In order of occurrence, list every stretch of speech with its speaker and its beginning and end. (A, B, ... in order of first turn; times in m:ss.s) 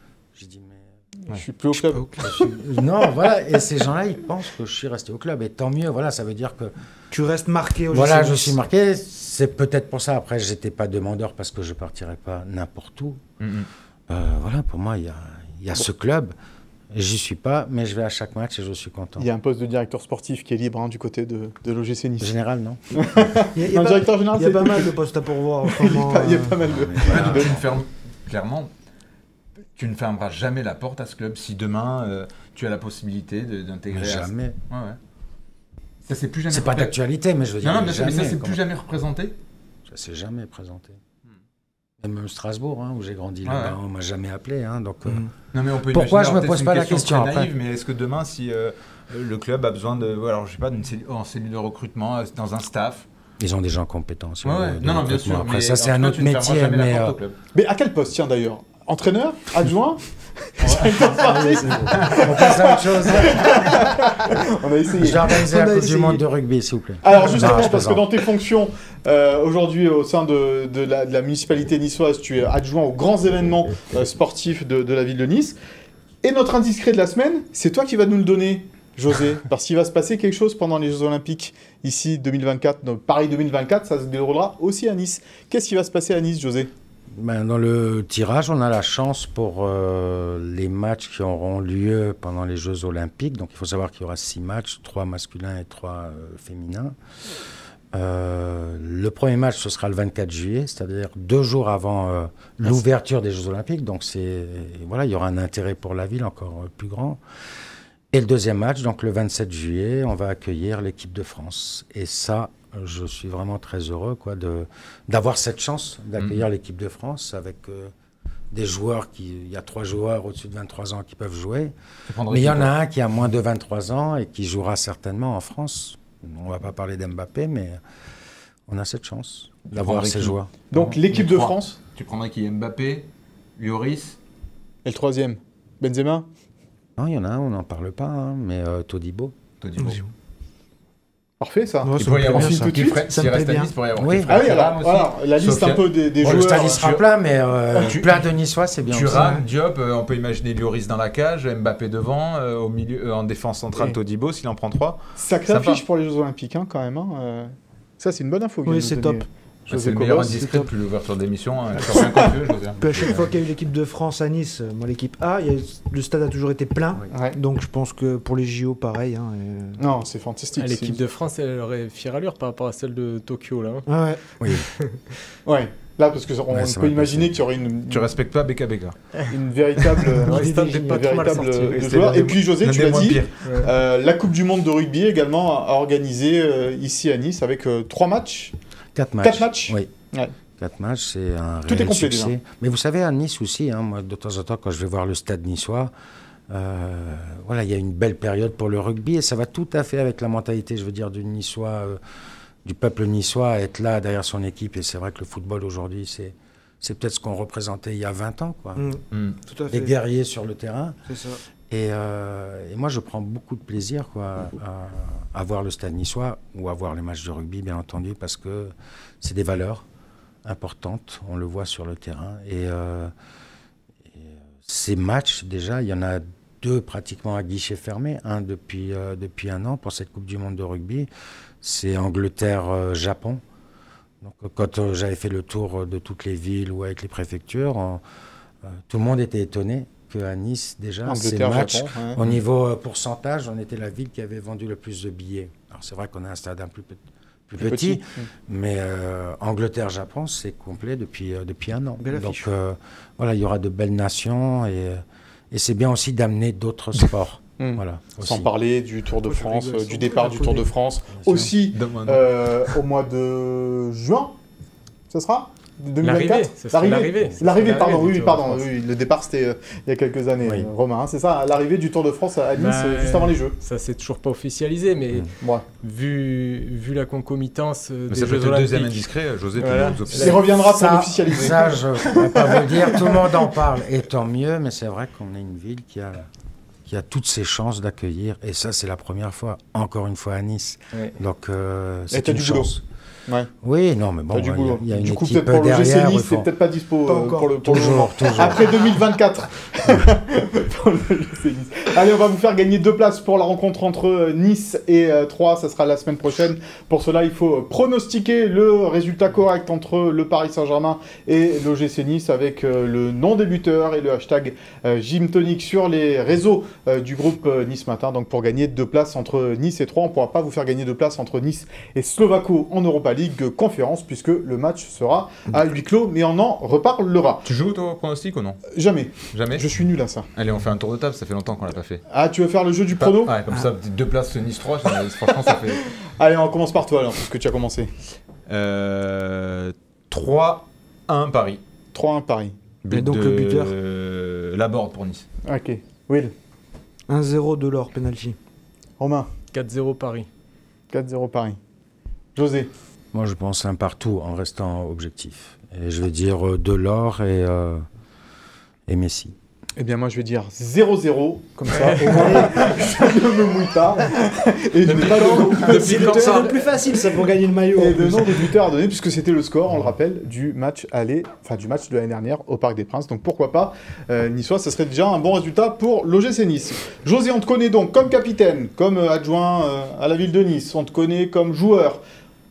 0:00.4-0:00.9 A
0:01.3-0:02.5 B
0:01.8-0:02.2 C
0:02.2-0:06.7 A
0:07.1-0:08.6 C
0:07.9-0:13.2 A
0:13.4-0:13.7 D
0:14.1-0:16.3 A
0:16.9-0:19.3 A
0:19.2-0:22.3 B
0:22.2-0:23.4 A
0:23.0-0:24.9 B
0:23.6-0:26.6 C
0:25.6-0:27.6 B
0:26.6-0:27.6 A
0:27.1-0:28.7 D
0:29.8-0:35.0 D
0:33.9-0:34.6 A
0:36.0-0:37.0 D
0:36.5-0:38.6 A
0:37.6-0:39.4 D
0:39.9-0:41.0 A
0:42.0-0:45.3 A
0:43.4-0:43.8 D
0:45.5-0:53.1 D
0:45.9-0:47.5 A
0:53.4-0:57.2 A
0:54.4-0:57.4 D
0:57.5-1:05.4 B
1:00.6-1:01.1 D
1:01.1-1:02.1 C
1:01.7-1:03.7 A
1:03.4-1:03.9 C
1:05.0-1:08.1 A
1:05.3-1:06.2 C
1:07.0-1:15.6 B
1:16.2-1:26.7 B
1:27.1-1:37.0 A
1:37.9-1:47.2 A
1:48.1-1:57.9 A
1:56.2-1:56.4 D
1:58.5-2:01.7 A
2:02.1-2:02.7 D
2:02.3-2:07.8 A
2:08.7-2:10.5 A
2:09.7-2:14.2 D
2:10.7-2:11.8 B
2:14.8-2:16.3 B
2:17.0-2:19.4 A
2:19.6-2:20.0 D
2:19.8-2:20.1 C
2:21.4-2:23.0 B
2:21.8-2:23.7 C
2:22.0-2:27.0 D
2:24.0-2:24.4 A
2:24.3-2:26.8 B
2:26.2-2:29.4 A
2:27.7-2:28.2 D
2:28.8-2:35.8 D
2:35.2-2:40.4 B
2:38.7-2:39.2 C
2:39.7-2:43.3 D
2:40.4-2:40.7 C
2:41.9-2:42.3 C
2:42.8-2:49.8 C
2:47.1-2:47.4 B
2:49.8-2:51.0 B
2:50.6-2:53.8 E
2:53.9-2:54.2 C
2:54.4-2:54.7 A
2:55.5-2:58.1 B
2:56.5-2:57.4 A
2:57.9-2:59.0 D
2:59.3-3:08.5 B
3:00.2-3:01.9 E
3:00.3-3:01.0 C
3:01.7-3:03.7 D
3:03.4-3:03.7 E
3:09.0-3:09.9 A
3:09.2-3:10.3 B
3:10.6-3:15.9 A
3:11.7-3:12.3 B
3:16.5-3:22.0 A
3:22.6-3:28.8 A
3:28.8-3:29.9 C
3:29.1-3:29.4 D
3:29.7-3:31.0 A
3:31.1-3:31.4 C
3:31.7-3:39.8 A
3:40.4-3:43.1 A
3:44.1-3:51.1 A
3:51.6-3:53.4 A
3:54.2-3:58.0 A
3:58.7-4:18.5 A
4:01.1-4:02.2 B
4:07.6-4:08.3 B
4:12.0-4:12.5 C
4:17.6-4:24.4 B
4:19.2-4:20.7 C
4:21.1-4:21.5 A
4:21.7-4:22.7 D
4:25.1-4:33.6 B
4:26.0-4:28.7 E
4:30.4-4:30.7 A
4:32.6-4:40.5 E
4:38.1-4:40.6 D
4:39.7-4:43.4 B
4:40.5-4:46.3 A
4:46.8-4:52.8 A
4:52.1-4:52.7 B
4:53.6-4:56.5 A
4:54.3-5:27.4 B
4:57.1-4:58.8 C
4:57.6-4:58.7 A
5:27.4-5:28.7 D
5:28.7-5:30.3 B
5:29.3-5:29.7 D
5:30.4-5:32.0 D
5:32.1-5:33.4 B
5:33.0-5:35.8 D
5:35.4-5:37.9 B
5:38.5-5:41.6 D
5:41.9-5:42.6 B
5:42.8-5:45.3 D
5:42.9-5:43.7 C
5:45.4-5:46.3 B
5:47.1-5:48.4 C
5:49.0-5:49.3 B
5:49.5-5:50.3 E
5:50.9-5:51.6 B
5:52.4-5:52.7 B
5:53.1-5:57.8 A
5:58.9-5:59.4 A
5:59.8-6:06.5 B
6:01.7-6:02.4 E
6:02.0-6:02.8 C
6:04.8-6:06.4 D
6:04.9-6:06.4 E
6:05.4-6:08.4 C
6:07.8-6:22.0 B